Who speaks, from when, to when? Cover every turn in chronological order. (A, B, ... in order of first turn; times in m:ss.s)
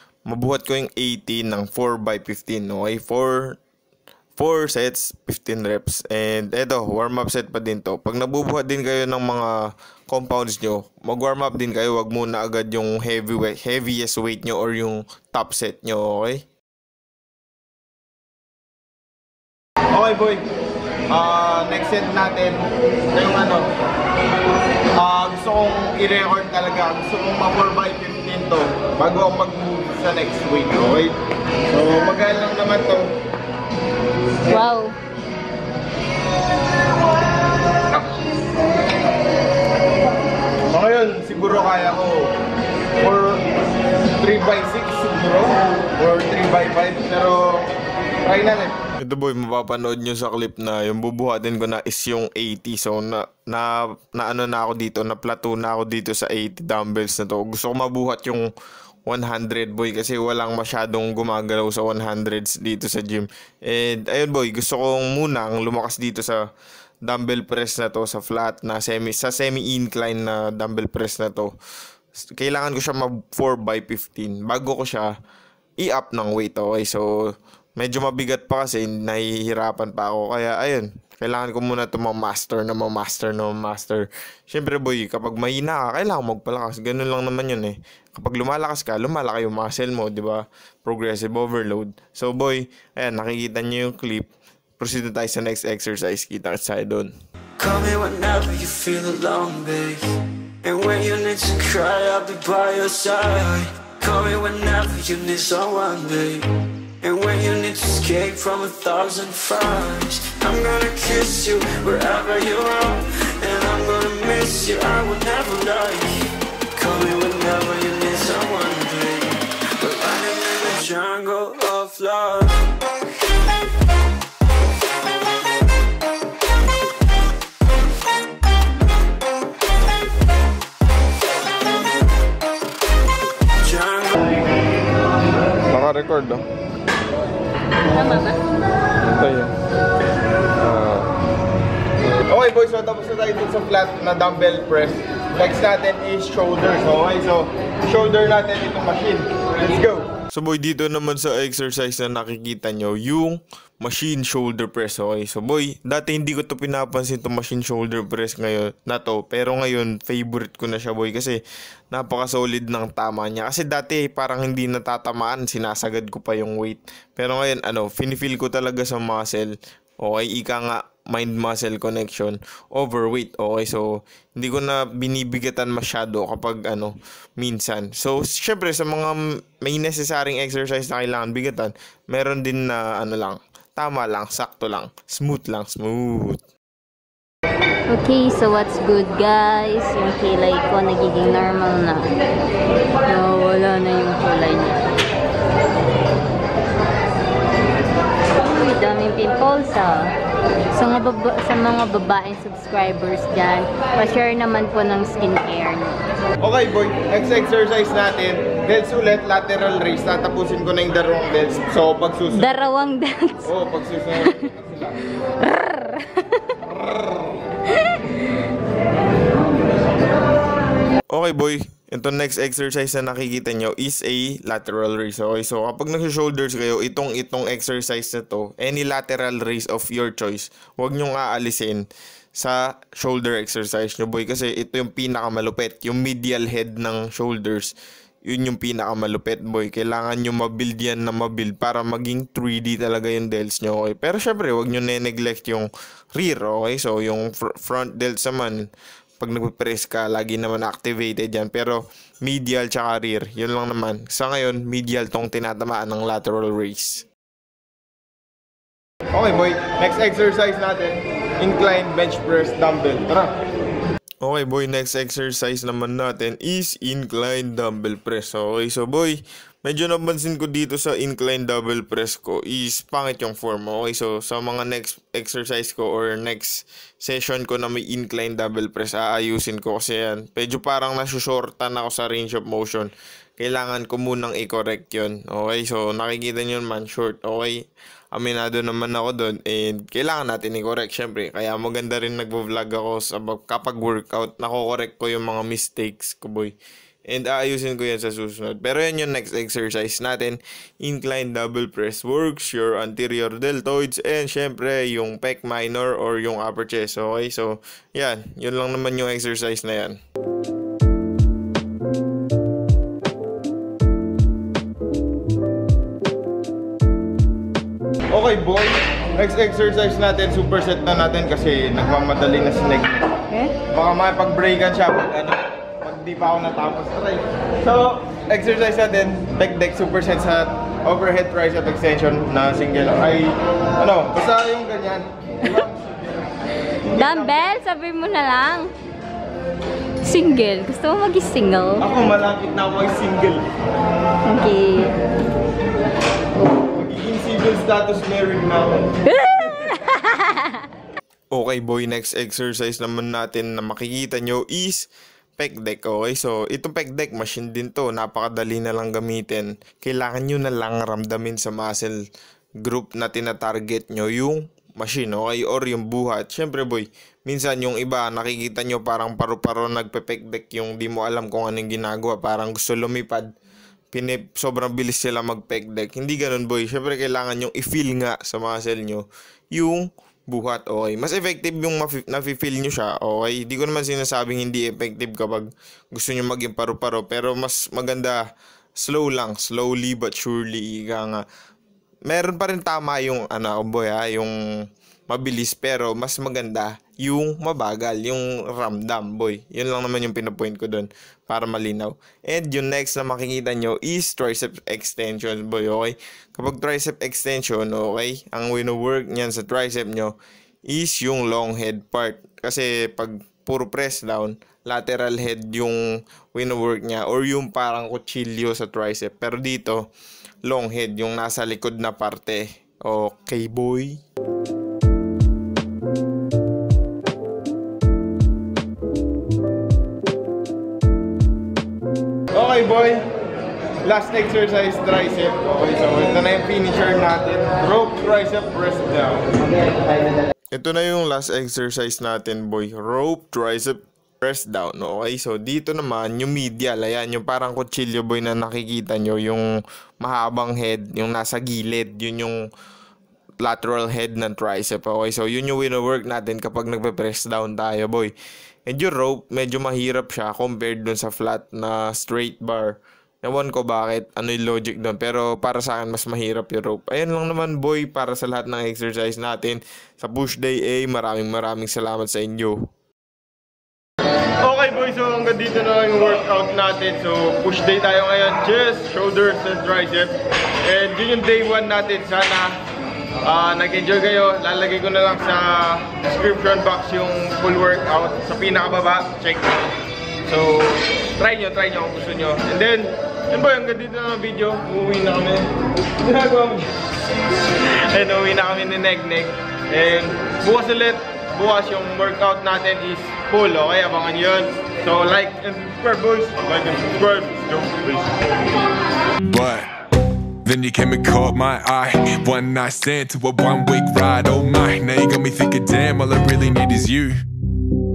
0:00.3-0:03.6 A
0:04.4-0:16.4 A
0:19.9-0:20.4 A
0:21.1-0:23.7 A
0:25.0-0:31.2 A
0:31.7-0:33.1 A
0:34.5-0:35.0 B
0:40.7-0:42.3 A
0:43.0-0:43.4 A
0:44.2-0:47.6 A
0:48.2-0:58.5 A
0:59.1-1:06.4 A
1:07.0-1:11.5 A
1:12.4-1:15.1 A
1:15.8-1:17.1 A
1:17.8-1:37.1 A
1:37.6-1:40.0 C
1:40.6-1:46.5 C
1:47.0-2:02.7 C
2:13.6-2:14.3 C
2:15.7-2:16.4 A
2:17.9-2:18.4 B
2:19.0-2:19.5 A
2:20.6-2:21.1 A
2:22.3-2:41.4 A
2:41.9-3:06.4 A
3:07.9-3:12.1 B
3:13.0-3:14.8 B
3:18.4-3:20.1 B
3:20.7-3:26.0 B
3:26.4-3:32.6 A
3:32.3-3:33.5 B
3:33.4-3:35.0 A
3:35.4-3:36.4 B
3:41.1-4:17.1 A
4:19.1-4:23.4 A
4:24.2-4:56.6 A
4:57.1-5:10.0 A
5:18.1-5:23.2 A
5:23.7-5:36.1 A
5:36.9-5:38.7 B
5:36.9-5:37.4 A
5:40.0-5:41.8 B
5:41.8-5:43.4 A
5:44.3-5:45.0 B
5:46.4-5:48.9 A
5:49.3-5:50.6 B
5:51.3-6:02.0 A
6:02.6-6:13.3 A
6:13.9-6:28.2 A
6:28.8-6:31.2 A
6:32.1-6:34.4 A
6:35.1-6:59.9 A
7:00.4-7:04.0 A
7:12.3-7:13.0 A
7:13.8-7:32.5 A
7:33.4-7:38.1 A
7:38.7-7:52.7 A
7:54.4-8:02.6 A
8:03.2-8:16.7 A
8:17.7-8:28.1 A
8:29.3-8:29.7 D
8:30.4-8:37.2 D